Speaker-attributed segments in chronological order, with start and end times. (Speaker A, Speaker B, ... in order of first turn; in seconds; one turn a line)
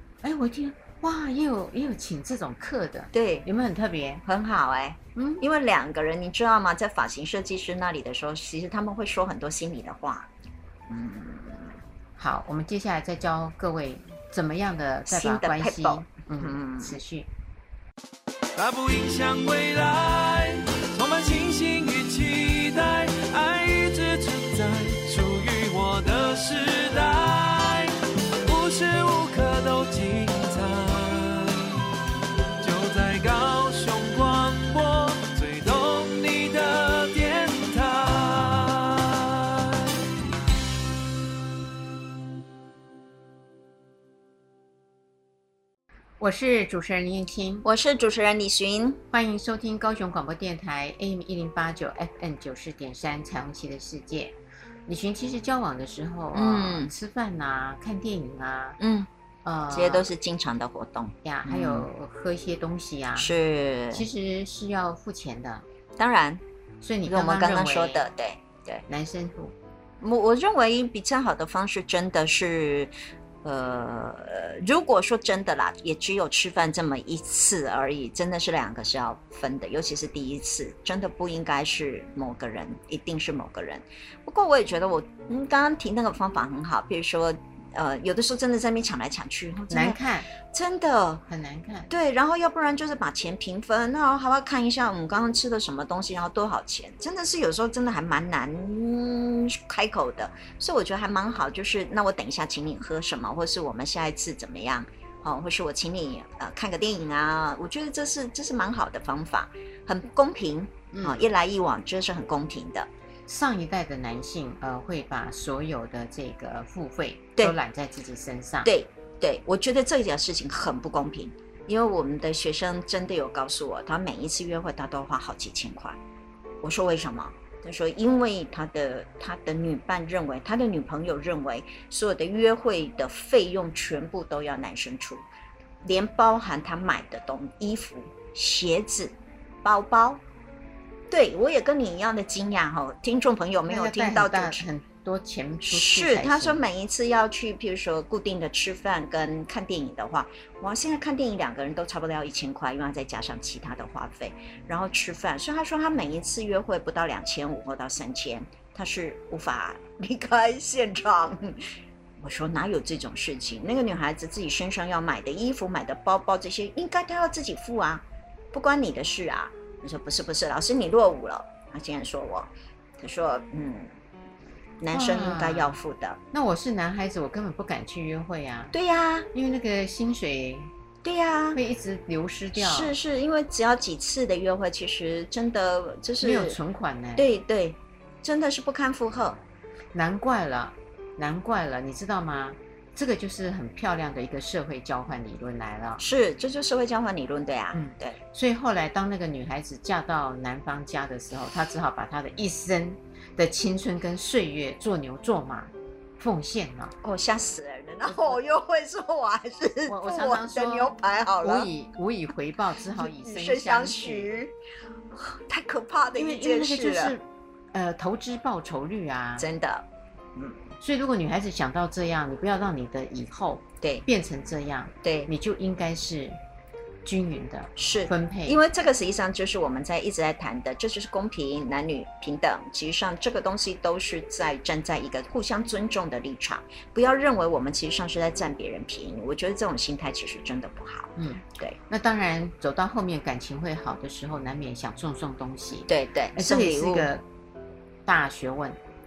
Speaker A: 0.2-4.2
Speaker B: 3.1-3.5
Speaker B: 4.2-10.3
Speaker A: 5.1-5.4
Speaker B: 10.9-11.8
Speaker A: 12.2-17.3
Speaker B: 15.1-17.0
Speaker C: 18.6-31.7
Speaker C: 32.6-39.9
Speaker A: 46.2-47.7
Speaker B: 47.6-49.0
Speaker A: 49.1-58.8
Speaker B: 56.3-56.9
Speaker B: 58.8-59.1
Speaker A: 59.4-60.1
Speaker B: 59.7-61.9
Speaker A: 61.2-63.3
Speaker B: 63.1-64.0
Speaker A: 63.9-65.6
Speaker B: 66.0-66.4
Speaker A: 66.8-68.0
Speaker B: 67.0-68.8
Speaker A: 68.9-69.5
Speaker B: 70.0-72.9
Speaker B: 73.4-91.2
Speaker A: 89.7-90.3
Speaker A: 91.3-91.9
Speaker B: 91.9-112.9
Speaker A: 110.9-111.2
Speaker A: 113.3-118.7
Speaker B: 118.6-126.0
Speaker B: 126.6-135.2
Speaker B: 135.8-140.2
Speaker B: 141.1-144.7
Speaker A: 143.7-146.6
Speaker B: 145.6-161.7
Speaker B: 162.2-173.9
Speaker B: 174.8-176.2
Speaker A: 174.9-175.8
Speaker A: 176.3-178.8
Speaker B: 178.7-179.3
Speaker A: 179.3-180.7
Speaker B: 181.0-181.6
Speaker A: 181.5-182.9
Speaker B: 182.5-186.6
Speaker A: 186.2-187.2
Speaker B: 187.2-189.4
Speaker A: 189.9-196.0
Speaker B: 196.0-198.2
Speaker A: 197.7-206.9
Speaker B: 207.0-211.7
Speaker A: 209.9-214.3
Speaker B: 212.9-214.5
Speaker B: 215.1-217.1
Speaker A: 216.1-219.5
Speaker B: 219.4-220.7
Speaker A: 220.8-226.4
Speaker B: 225.0-225.3
Speaker A: 227.0-228.6
Speaker B: 227.8-241.8
Speaker A: 241.2-247.2
Speaker B: 245.9-247.1
Speaker A: 248.1-248.8